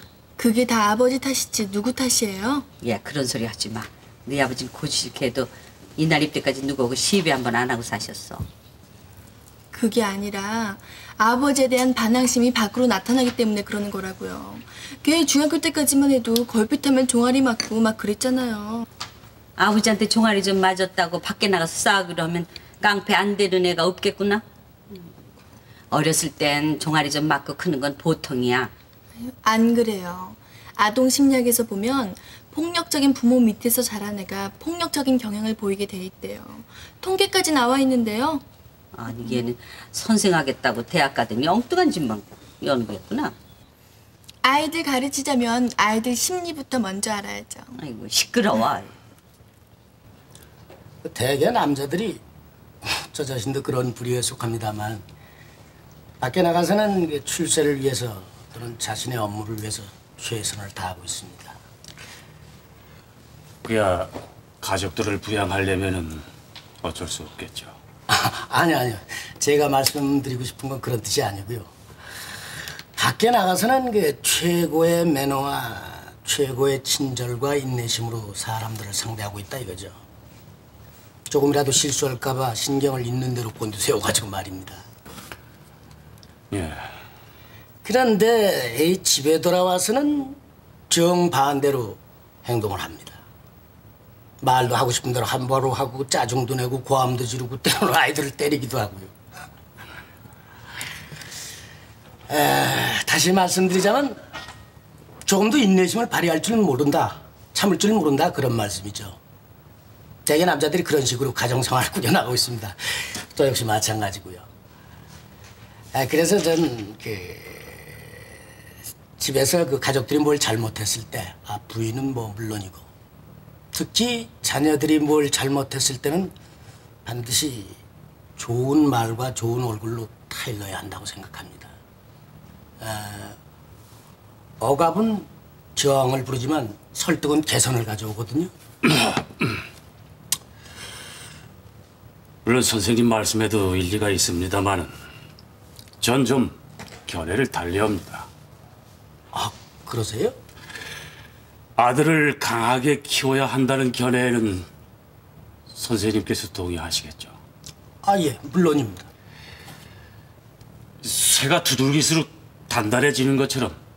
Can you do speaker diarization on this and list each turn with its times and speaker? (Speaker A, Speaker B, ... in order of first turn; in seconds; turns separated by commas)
Speaker A: 0.4-2.7, Speaker B: 2.8-8.4, Speaker A: 9.7-18.9, Speaker B: 19.6-25.1, Speaker B: 25.9-28.7, Speaker A: 29.2-38.4, Speaker B: 38.9-43.4, Speaker A: 44.4-47.7, Speaker B: 47.7-49.0, Speaker C: 51.0-52.2, Speaker C: 52.8-55.0, Speaker C: 56.2-61.6, Speaker D: 63.6-66.3, Speaker D: 66.8-67.8, Speaker C: 68.1-71.7, Speaker C: 73.0-80.0, Speaker C: 81.3-84.8, Speaker D: 86.5-86.9, Speaker C: 87.8-90.4, Speaker C: 90.9-93.2, Speaker C: 94.4-99.1, Speaker C: 102.3-104.2, Speaker C: 105.2-109.2, Speaker C: 110.2-114.5, Speaker C: 115.9-118.3, Speaker C: 119.2-122.8, Speaker C: 123.7-126.3, Speaker C: 127.0-127.8, Speaker C: 128.4-131.7, Speaker C: 132.8-133.4, Speaker C: 134.6-138.5, Speaker D: 142.4-144.9, Speaker D: 146.0-148.3, Speaker C: 149.3-150.3, Speaker D: 151.8-154.7, Speaker D: 155.7-157.3, Speaker C: 158.0-159.1, Speaker D: 161.0-163.8